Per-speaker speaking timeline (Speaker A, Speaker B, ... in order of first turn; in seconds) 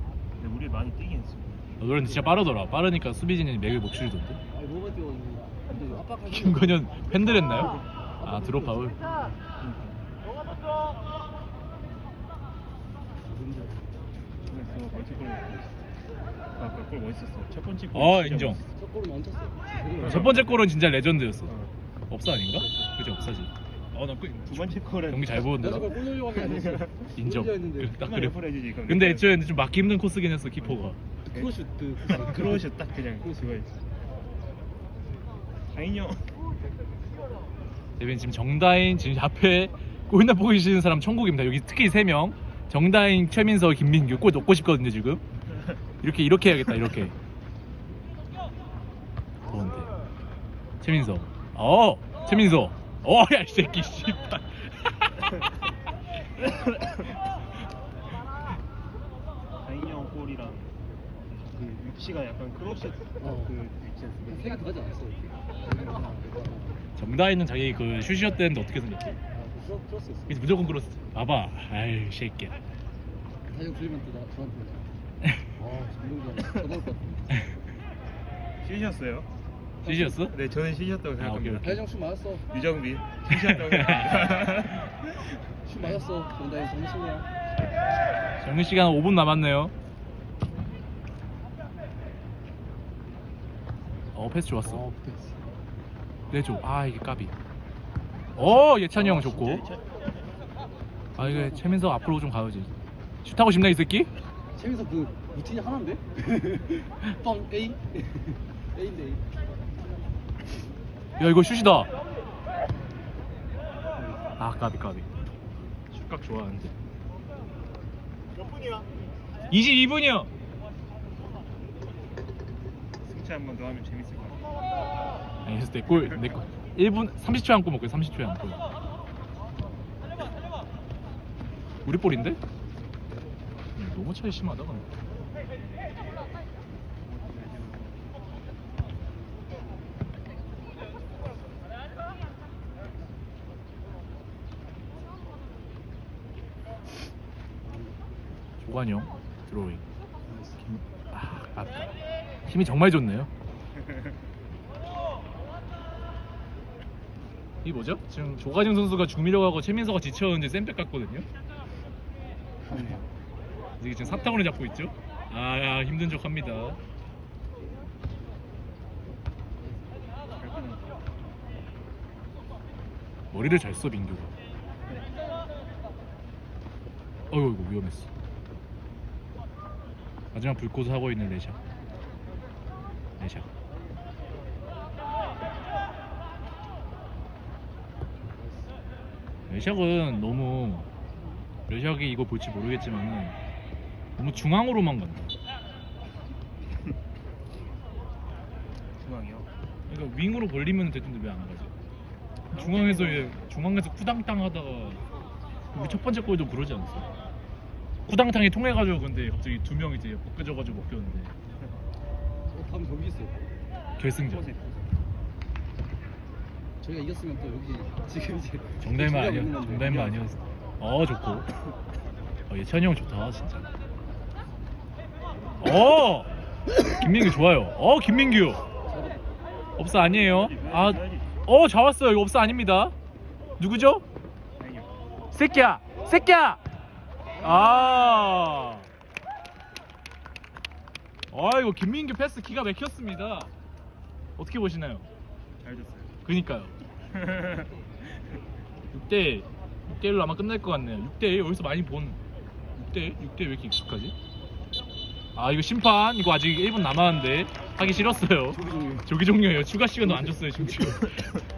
Speaker A: 0.3-2.2, 7.5-7.8, 9.6-10.0, 14.5-15.9, 16.6-18.6, 20.0-20.6, 21.4-21.7, 24.5-27.1, 27.9-29.4, 30.6-33.8, 35.7-36.3, 59.6-64.6, 78.6-79.3, 80.2-81.8, 82.5-85.3, 98.9-99.9, 123.0-124.4, 137.0-138.1, 170.3-171.0, 199.0-199.5, 202.5-203.4, 214.3-214.9, 219.8-220.2, 230.0-231.3, 234.6-234.9, 245.6-246.1, 247.1-247.8
Speaker B: 1.8-4.4, 6.3-9.0, 17.9-18.6, 20.0-21.5, 22.1-26.0, 27.1-31.0, 38.0-45.2, 46.0-47.1, 49.5-49.9, 50.8-55.4, 67.0-69.2, 70.3-72.5, 79.8-80.4, 81.2-81.9, 83.3-84.7, 88.4-89.7, 94.1-94.8, 96.3-97.3, 98.3-99.7, 101.2-104.1, 111.2-111.9, 114.4-115.1, 115.9-116.7, 119.5-120.3, 125.4-128.6, 131.8-132.4, 133.8-134.9, 148.6-149.8, 150.6-151.9, 152.4-153.3, 157.6-161.3, 163.8-166.8, 173.3-174.3, 177.3-178.1, 180.3-181.6, 183.2-183.5, 189.5-190.9, 191.7-193.3, 194.2-195.3, 199.9-201.7, 202.5-205.0, 205.7-207.1, 208.1-211.3, 214.0-214.5, 218.8-221.5, 222.5-223.7, 225.6-226.3, 226.8-228.6, 229.8-232.9, 233.6-234.0, 235.3-236.6, 237.4-238.9, 241.3-243.5, 244.4-245.1, 246.2-246.7, 248.9-252.2, 252.8-254.1, 255.3-261.4
Speaker C: 4.5-9.4, 13.2-13.8, 18.7-20.3, 22.6-22.9, 25.6-28.0, 31.3-33.4, 63.2-63.5, 64.2-66.9, 69.3-70.5, 73.5-74.9, 75.5-77.3, 79.8-80.2, 81.6-82.5, 85.6-87.3, 94.6-95.5, 99.0-99.6, 101.2-101.6, 104.5-110.0, 113.9-114.4, 147.6-148.1, 150.2-150.6, 162.6-163.1, 169.6-170.1, 212.5-213.5, 216.8-220.1, 228.8-229.2, 257.8-259.1, 260.0-260.4